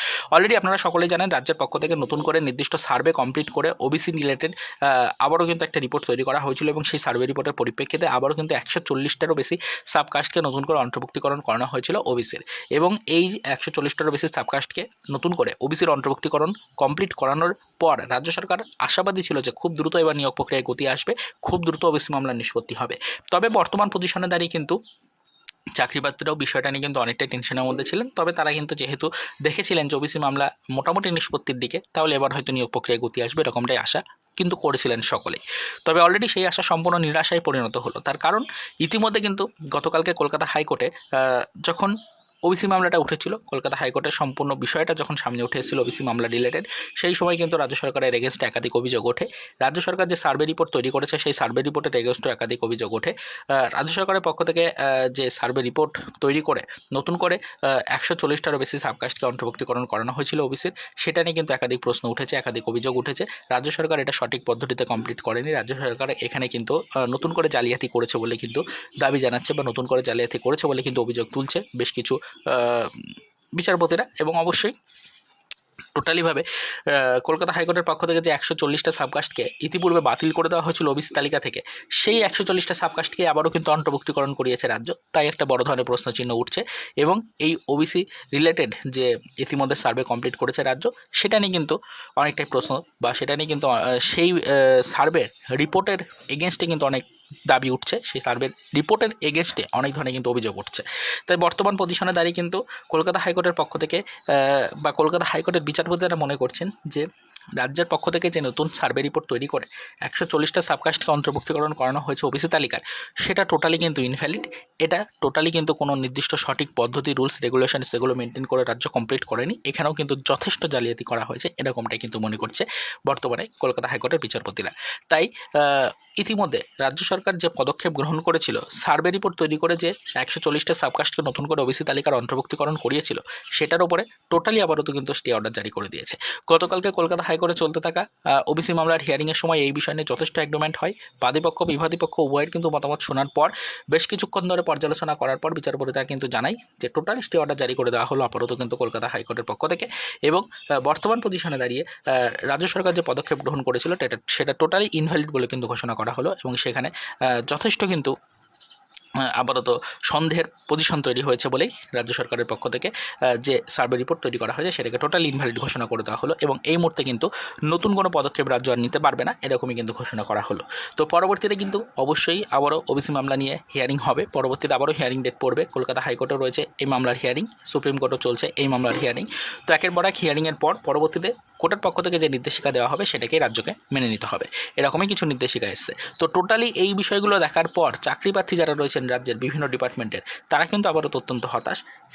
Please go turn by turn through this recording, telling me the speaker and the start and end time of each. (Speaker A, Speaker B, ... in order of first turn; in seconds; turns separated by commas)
Speaker A: 0.3-24.8, Speaker A: 25.8-41.9, Speaker A: 42.5-74.7, Speaker A: 75.9-158.1, Speaker A: 159.2-191.8